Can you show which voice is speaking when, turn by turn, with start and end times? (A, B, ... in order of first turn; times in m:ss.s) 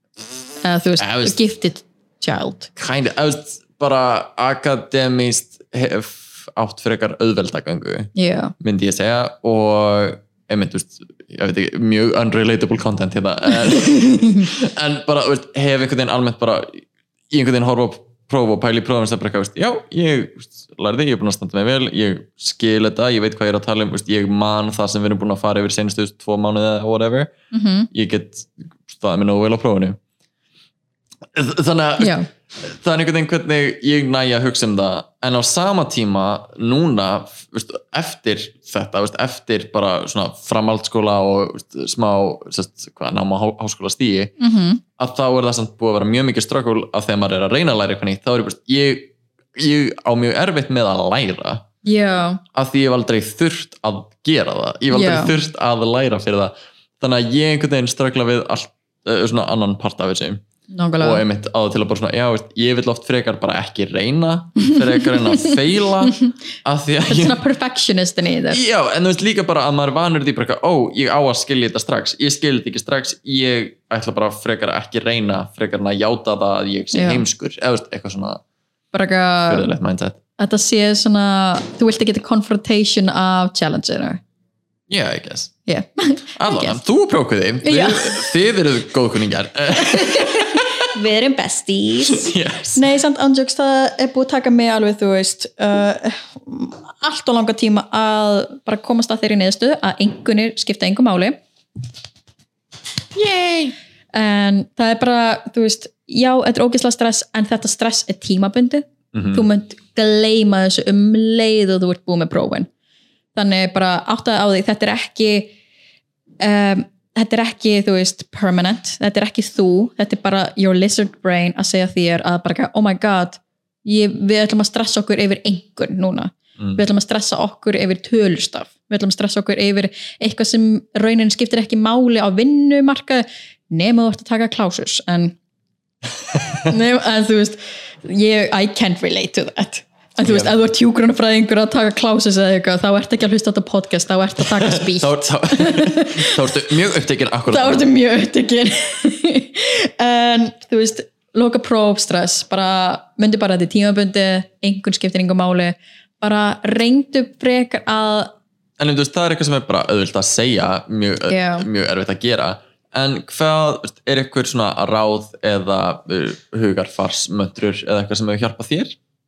0:00.6-0:02.7 A
0:01.0-0:01.4 B
0:02.8-0:27.3 B
0:08.2-0:08.5 A
0:13.7-0:14.5 A
0:27.5-0:27.9 A
0:27.9-0:30.0 B
0:31.3-0:44.3 B
0:32.0-0:32.3 A
0:44.4-0:44.8 A
0:45.0-0:51.6 B
0:51.8-0:52.4 A
0:52.5-1:00.4 B
0:54.9-0:55.3 A
1:00.7-1:01.2 A
1:01.0-1:07.4 B
1:04.7-1:06.3 A
1:07.1-1:08.6 A
1:08.5-1:18.4 B
1:16.9-1:17.2 A
1:18.9-1:19.7 A
1:19.5-1:20.2 B
1:20.4-1:24.2 A
1:24.9-1:25.5 B
1:25.7-1:26.8 A
1:26.4-1:30.8 B
1:27.6-1:28.3 A
1:29.8-1:41.4 A
1:32.1-1:32.8 B
1:43.1-1:43.7 B
1:44.1-1:52.7 A
1:49.1-1:49.4 B
1:53.3-1:55.5 A
1:56.4-2:15.4 A
2:16.3-2:16.6 B
2:16.6-2:26.4 A
2:20.2-2:20.5 B
2:24.4-2:27.9 B
2:27.5-2:38.3 A
2:38.8-2:49.0 B
2:41.3-2:41.7 A